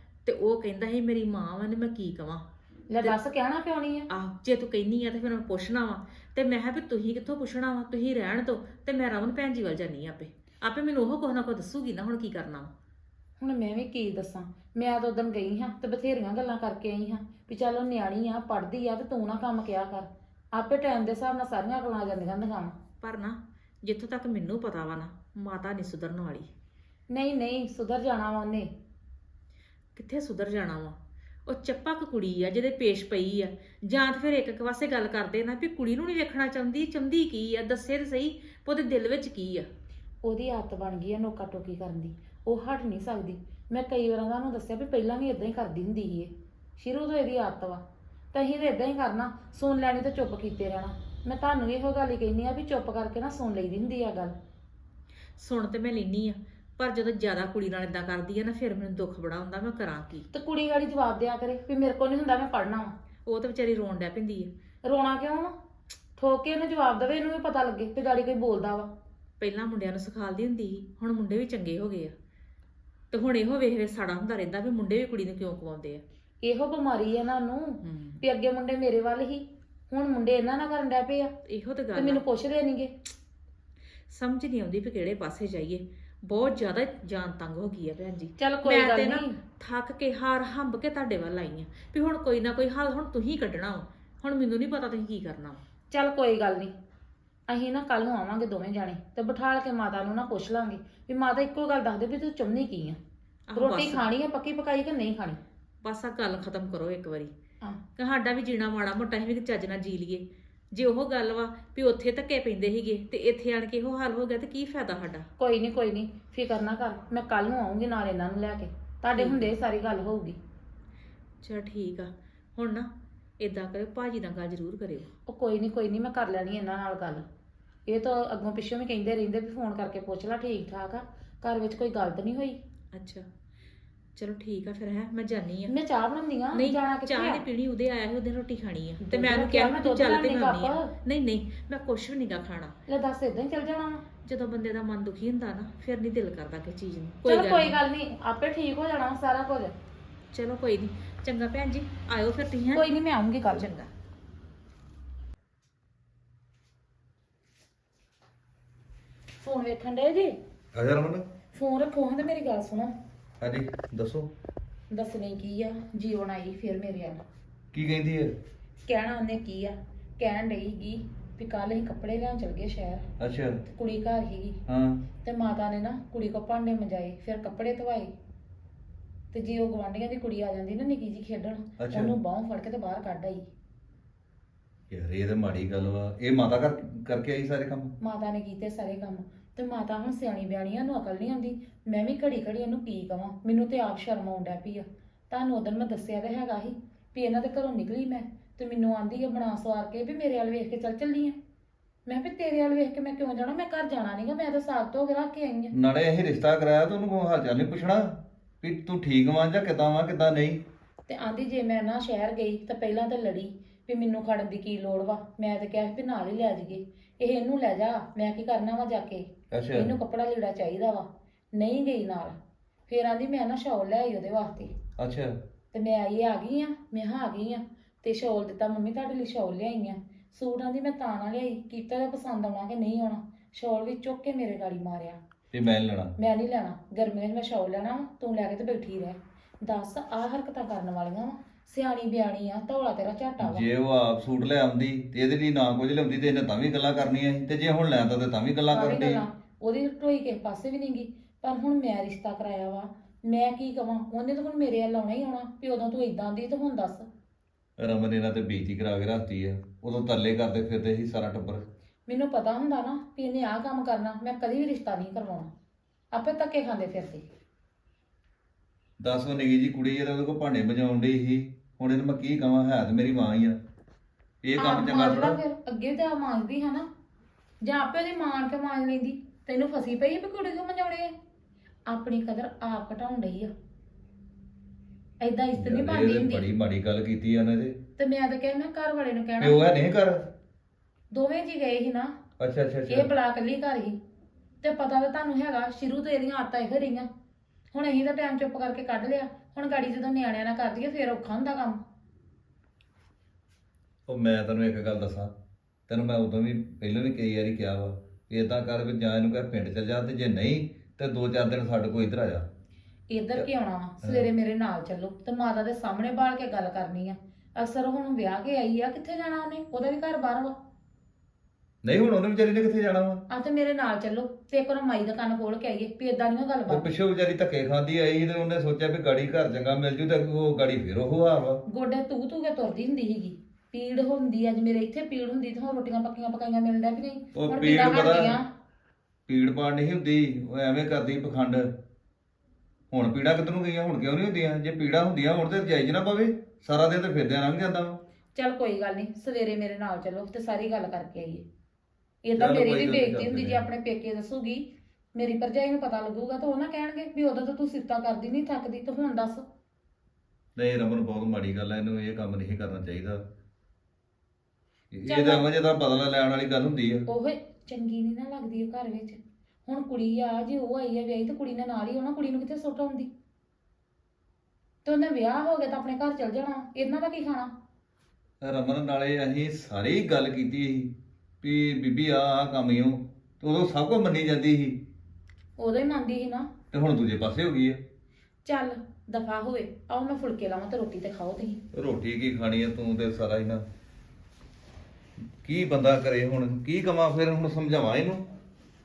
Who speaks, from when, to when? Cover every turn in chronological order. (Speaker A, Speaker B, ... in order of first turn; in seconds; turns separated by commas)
Speaker A: 0.2-2.4, Speaker B: 2.9-4.1, Speaker A: 4.1-12.7, Speaker B: 13.4-22.8, Speaker A: 23.0-26.5, Speaker B: 27.1-28.7, Speaker A: 29.9-39.6, Speaker B: 40.2-47.8, Speaker B: 48.3-54.3, Speaker A: 55.4-60.3, Speaker B: 60.3-62.9, Speaker A: 63.2-64.5, Speaker B: 64.8-65.5, Speaker B: 66.2-68.9, Speaker A: 69.4-72.1, Speaker A: 73.1-76.0, Speaker B: 76.4-81.3, Speaker A: 77.8-78.2, Speaker A: 81.5-82.2, Speaker B: 81.9-82.9, Speaker A: 84.1-95.6, Speaker B: 88.4-89.3, Speaker B: 95.9-96.7, Speaker B: 97.5-103.0, Speaker A: 103.5-104.0, Speaker B: 103.5-105.4, Speaker A: 105.8-107.3, Speaker A: 108.0-115.3, Speaker B: 115.4-120.4, Speaker A: 119.1-119.5, Speaker A: 121.4-125.1, Speaker B: 125.3-127.2, Speaker B: 127.9-132.6, Speaker A: 132.9-133.3, Speaker A: 134.2-135.7, Speaker B: 135.7-137.4, Speaker A: 136.5-142.8, Speaker B: 139.0-140.9, Speaker B: 142.9-144.0, Speaker A: 144.2-147.8, Speaker B: 147.2-149.7, Speaker A: 150.3-152.9, Speaker B: 152.7-153.7, Speaker A: 153.5-153.9, Speaker B: 159.4-160.3, Speaker C: 160.7-161.2, Speaker B: 161.5-162.9, Speaker C: 163.4-164.3, Speaker B: 164.9-167.2, Speaker C: 167.7-168.3, Speaker B: 168.9-173.1, Speaker C: 173.2-173.6, Speaker B: 173.7-174.6, Speaker C: 174.7-175.0, Speaker B: 175.2-178.1, Speaker B: 179.3-183.5, Speaker C: 181.8-182.1, Speaker C: 184.9-187.9, Speaker B: 188.0-201.4, Speaker B: 202.1-205.7, Speaker C: 205.7-210.6, Speaker B: 211.1-222.3, Speaker C: 219.5-219.9, Speaker B: 222.9-224.7, Speaker C: 225.0-225.3, Speaker B: 225.7-235.2, Speaker C: 235.5-236.1, Speaker B: 236.2-243.7, Speaker C: 243.4-249.2, Speaker B: 248.7-257.1, Speaker C: 257.8-261.6, Speaker B: 262.1-265.5, Speaker B: 266.1-267.2, Speaker C: 269.0-273.6, Speaker C: 274.4-275.4, Speaker B: 274.6-276.9, Speaker B: 277.6-281.1, Speaker B: 281.9-283.5, Speaker B: 285.2-286.4, Speaker C: 285.6-287.8, Speaker B: 288.0-289.6, Speaker C: 289.4-290.2, Speaker B: 291.1-292.1, Speaker C: 292.4-293.1, Speaker B: 292.9-294.0, Speaker B: 294.6-297.1, Speaker B: 297.7-301.8, Speaker C: 304.1-305.3, Speaker C: 305.9-312.4, Speaker B: 313.1-320.5, Speaker C: 321.8-323.2, Speaker B: 323.3-326.9, Speaker C: 326.7-331.6, Speaker B: 331.7-338.4, Speaker C: 337.4-338.4, Speaker C: 339.3-341.7, Speaker C: 342.9-348.0, Speaker B: 348.4-351.4, Speaker B: 352.2-359.4, Speaker C: 352.4-353.6, Speaker C: 360.6-363.2, Speaker C: 364.9-367.0, Speaker B: 365.1-365.4, Speaker B: 367.1-373.1, Speaker B: 374.9-377.5, Speaker C: 378.4-384.8, Speaker B: 385.6-386.5, Speaker C: 386.7-387.8, Speaker B: 388.4-391.6, Speaker C: 391.7-393.6, Speaker C: 395.4-398.3